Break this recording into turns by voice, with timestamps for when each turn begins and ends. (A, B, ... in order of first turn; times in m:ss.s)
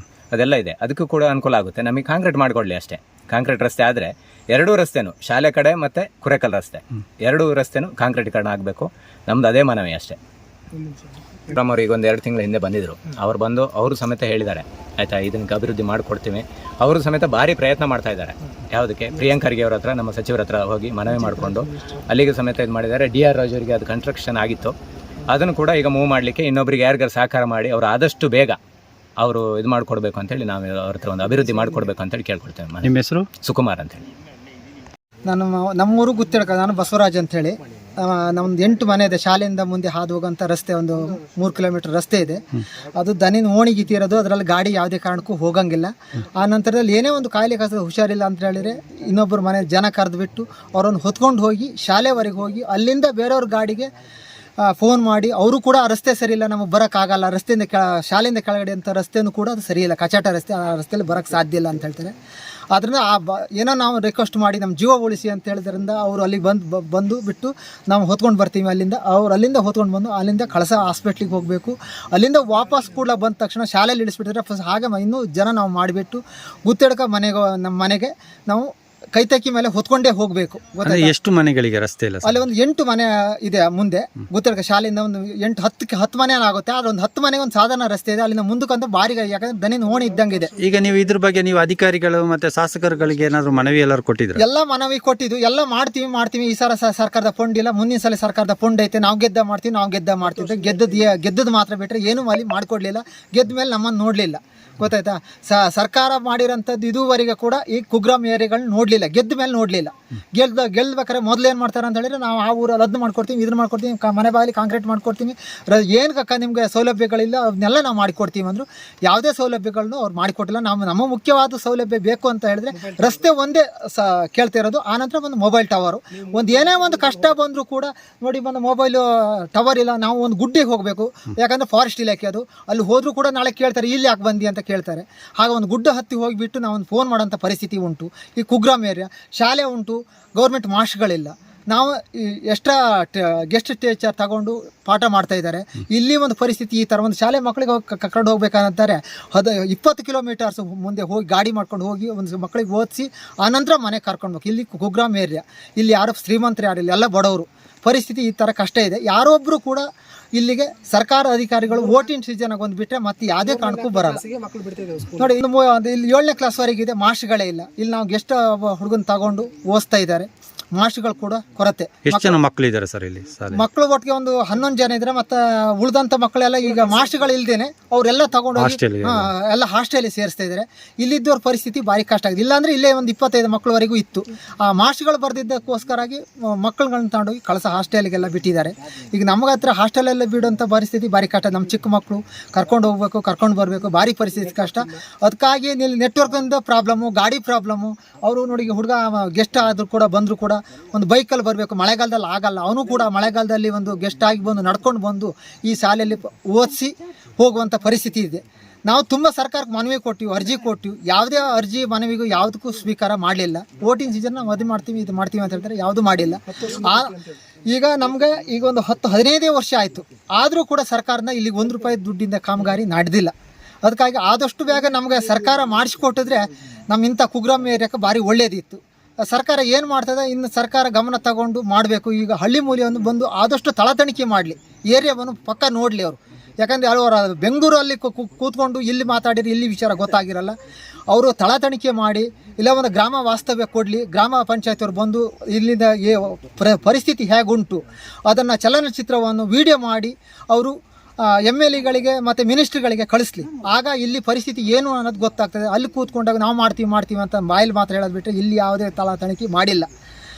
0:00.3-0:10.2 A
0:11.5-0:24.7 A
0:25.3-0:28.6 A
0:29.2-0:32.9 A
0:32.8-0:33.3 B
0:33.4-0:34.0 A
0:35.2-0:53.9 C
0:54.7-1:02.1 C
1:02.7-1:21.1 C
1:20.8-1:22.4 B
1:22.2-1:30.5 C
1:30.6-1:34.4 B
1:34.4-2:44.2 C
2:45.1-2:52.4 C
2:52.1-2:53.6 B
2:53.5-3:37.2 C
2:58.6-2:59.3 B
3:37.7-3:43.3 C
3:43.8-4:00.6 C
4:01.1-4:19.9 C